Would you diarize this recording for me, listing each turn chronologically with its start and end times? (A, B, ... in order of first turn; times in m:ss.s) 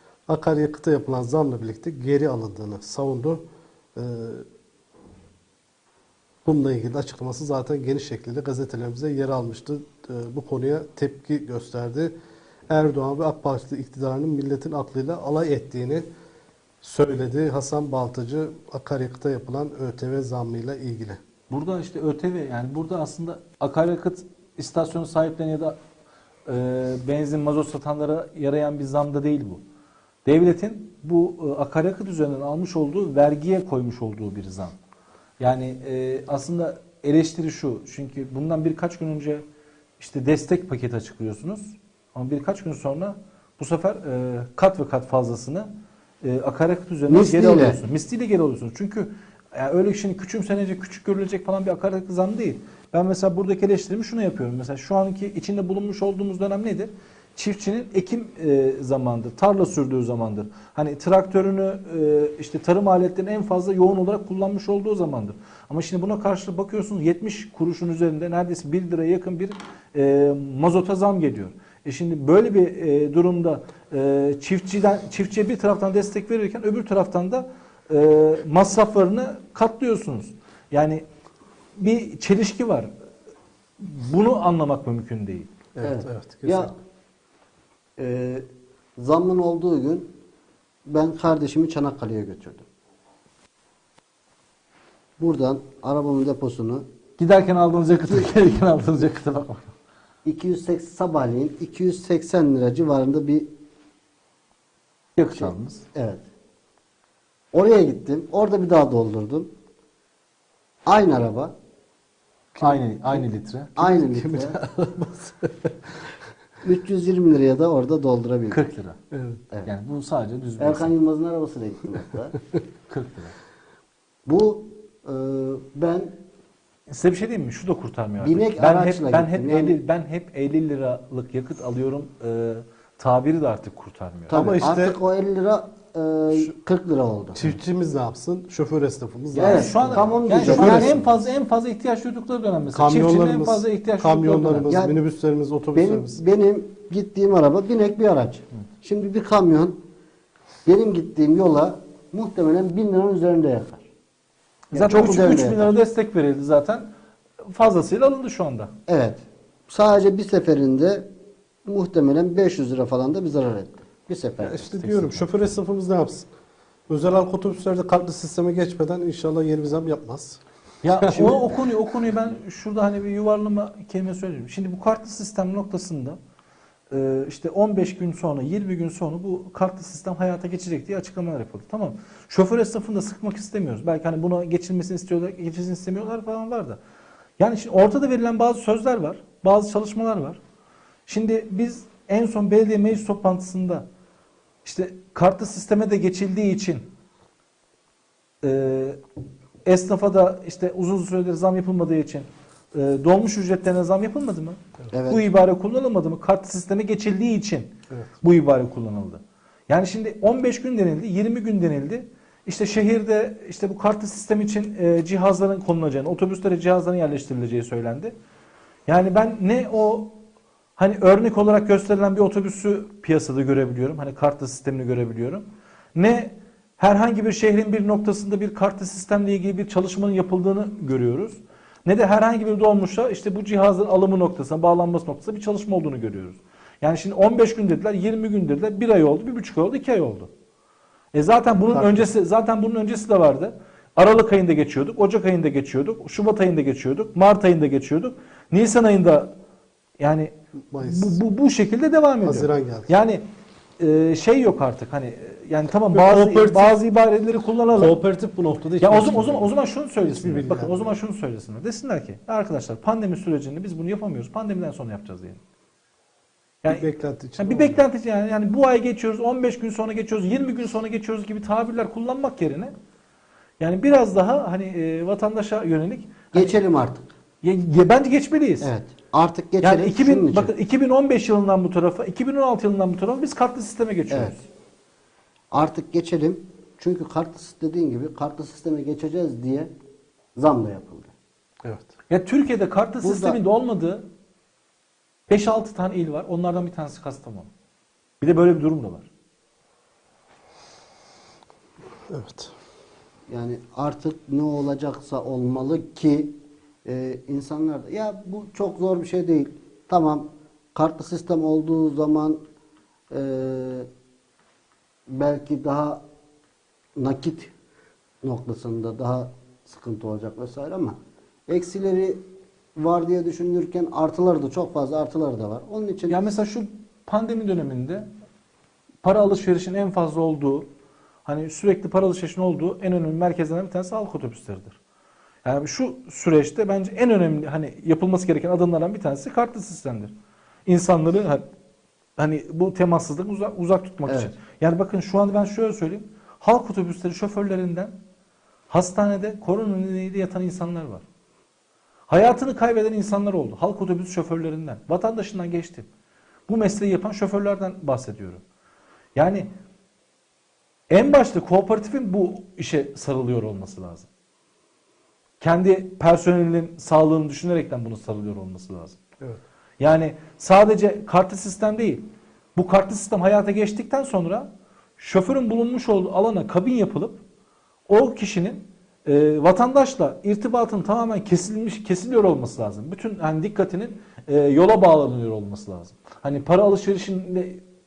0:00.3-0:03.4 A
0:04.0-0:04.5 A
0:06.4-0:12.1 A
0:12.7-0:16.1 A
0:16.8-0:21.2 A
0:21.5-0:25.8 B
0:26.5-0:29.6 B
0:30.3-0:34.8 B
0:35.4-0:39.4 B
0:40.0-0:45.7 B
0:46.2-1:21.0 B
0:47.1-0:47.8 C
1:21.8-1:22.9 B
1:23.8-1:25.5 B
1:25.8-1:26.7 A
1:25.8-1:26.7 C
1:28.0-1:28.4 C
1:29.0-1:30.1 C
1:30.9-1:32.7 C
1:35.2-1:36.8 C
1:37.2-1:39.7 B
1:38.0-1:38.3 C
1:40.2-1:43.5 C
1:45.2-1:45.9 B
1:45.4-1:46.2 C
1:47.5-1:49.5 C
1:50.9-1:51.5 C
1:52.6-1:53.2 A
1:52.6-1:53.8 B
1:53.8-1:54.6 C
1:53.8-1:55.7 A
1:56.6-1:58.6 C
1:58.5-1:59.0 B
1:59.1-1:59.4 A
1:59.7-2:00.9 B
2:00.6-2:02.4 C
2:02.9-2:03.3 B
2:04.3-2:06.2 C
2:06.9-2:14.4 B
2:08.2-2:09.8 C
2:14.3-2:17.5 C
2:14.3-2:15.0 A
2:17.4-2:21.0 A
2:19.3-2:24.7 B
2:19.4-2:21.2 C
2:22.7-2:26.2 A
2:24.7-2:25.0 C
2:25.7-2:29.8 C
2:30.6-2:33.8 C
2:34.7-2:36.9 B
2:34.7-2:35.8 C
2:37.4-2:38.7 B
2:38.9-2:41.1 C
2:41.6-2:44.6 C
2:44.4-2:46.3 A
2:44.6-2:45.3 B
2:46.9-2:50.4 A
2:50.8-2:56.2 B
2:50.9-2:51.5 A
2:56.9-3:06.8 B
3:07.4-3:10.4 B
3:11.1-3:13.9 B
3:14.6-3:16.9 B
3:18.4-3:19.0 B
3:19.6-3:38.1 B
3:24.9-3:25.3 C
3:38.9-3:40.1 B
3:40.8-4:00.3 B
4:01.1-4:09.4 B
4:01.7-4:02.1 A
4:10.0-4:13.2 B
4:10.7-4:11.2 A
4:12.2-4:12.9 A
4:13.8-4:18.0 B
4:15.9-4:16.8 A
4:17.7-4:19.5 A
4:18.8-4:25.4 B
4:20.1-4:21.0 A
4:26.7-4:27.8 A
4:27.4-4:32.7 B
4:33.6-4:36.6 B
4:36.3-4:37.1 C
4:37.4-4:38.7 B
4:38.6-4:40.5 C
4:39.6-4:44.4 B
4:44.1-4:44.4 C
4:45.5-4:49.7 C
4:50.4-4:51.1 C
4:51.6-4:51.9 A
4:52.1-4:54.0 B
4:53.0-4:53.4 C
4:55.3-4:57.5 B
4:58.2-4:59.1 B
5:02.1-5:02.5 A
5:03.3-5:12.4 C
5:13.1-5:13.9 C
5:15.1-5:16.0 C
5:17.0-5:17.5 C
5:18.2-5:22.2 C
5:22.8-5:26.2 C
5:26.1-5:28.1 B
5:29.0-5:30.7 B
5:31.3-5:34.8 B
5:35.4-5:40.1 B
5:40.7-5:41.4 B
5:42.2-5:48.0 B
5:44.1-5:44.3 C
5:48.7-5:51.0 B
5:52.1-5:55.9 B
5:56.5-5:58.4 B
5:59.2-5:59.5 B
6:00.9-6:04.1 B
6:05.4-6:09.0 B
6:09.8-6:12.0 B
6:12.6-6:17.2 B
6:17.9-6:27.6 B